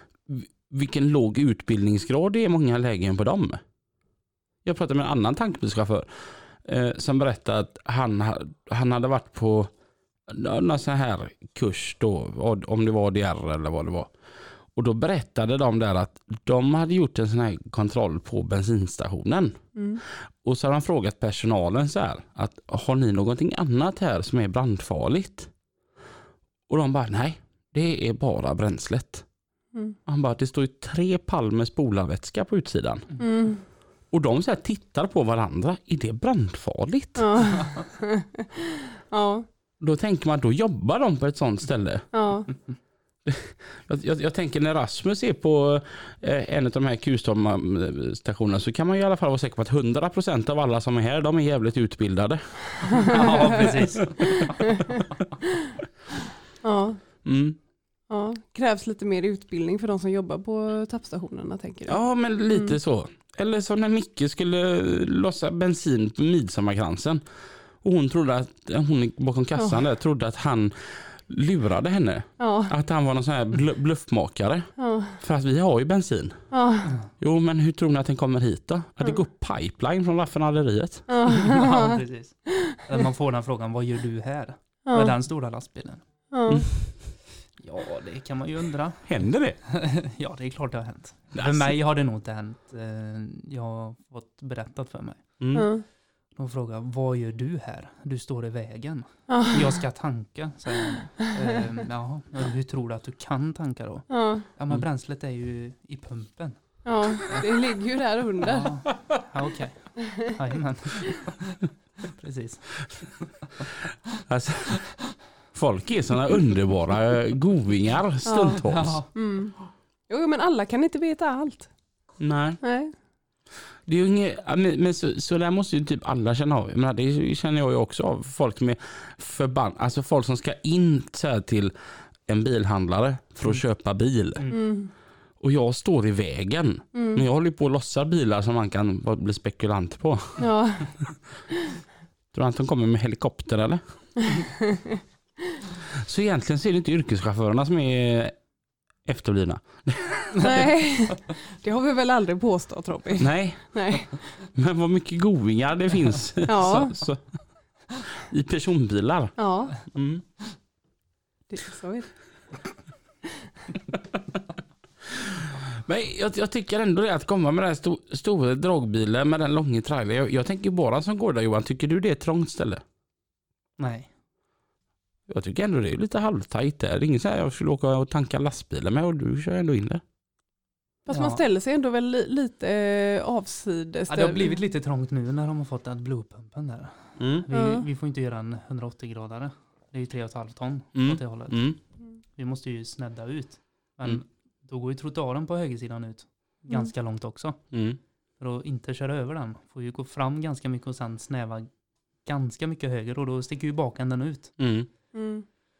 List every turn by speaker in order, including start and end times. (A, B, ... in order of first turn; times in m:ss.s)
0:00.2-0:03.6 A
0:04.6-0:09.7 A
0:10.3-0:14.1 A
0:14.7-0:25.5 A
0:19.7-0:20.0 B
0:26.7-0:29.3 A
0:30.0-0:37.6 A
0:33.2-0:33.6 B
0:37.2-0:38.6 B
0:39.1-0:39.4 B
0:39.8-0:42.1 A
0:42.1-0:42.5 B
0:43.2-0:54.3 A
0:53.0-0:54.8 B
0:53.1-0:54.5 C
0:56.6-0:57.0 B
0:57.2-0:57.6 A
0:58.1-1:02.8 B
1:01.8-1:21.1 A
1:12.4-1:12.7 B
1:14.8-1:15.2 B
1:16.5-1:16.9 B
1:21.1-1:22.0 B
1:21.3-1:26.3 C
1:24.8-1:25.1 B
1:26.3-1:26.7 B
1:27.6-1:35.7 C
1:29.0-1:29.6 A
1:31.3-1:31.8 A
1:35.4-1:35.7 A
1:35.5-1:35.8 B
1:36.3-1:47.5 C
1:39.3-1:39.6 B
1:44.1-1:44.4 B
1:46.8-1:48.9 B
1:48.4-1:51.4 C
1:52.1-1:53.1 C
1:54.3-1:59.0 A
1:58.2-1:58.6 B
1:58.5-1:59.1 C
1:59.1-2:01.7 B
2:02.2-2:02.6 A
2:02.6-2:02.9 B
2:03.8-2:14.6 A
2:13.4-2:13.7 C
2:14.5-2:14.9 B
2:15.4-2:20.5 A
2:16.9-2:17.2 B
2:20.4-2:21.4 B
2:22.3-2:24.2 A
2:26.0-2:28.4 A
2:29.0-2:30.7 A
2:30.4-2:34.4 B
2:33.2-2:40.2 A
2:36.4-2:37.0 B
2:39.4-2:39.8 B
2:41.5-2:42.6 B
2:45.8-2:52.8 A
2:53.8-2:54.1 C
2:55.3-3:00.0 A
3:01.0-3:04.6 B
3:01.1-3:01.4 C
3:04.1-3:17.8 C
3:07.2-3:07.4 A
3:07.5-3:07.8 B
3:10.9-3:11.8 A
3:17.7-3:18.0 A
3:18.4-3:24.6 C
3:24.6-3:24.9 A
3:25.1-3:25.4 B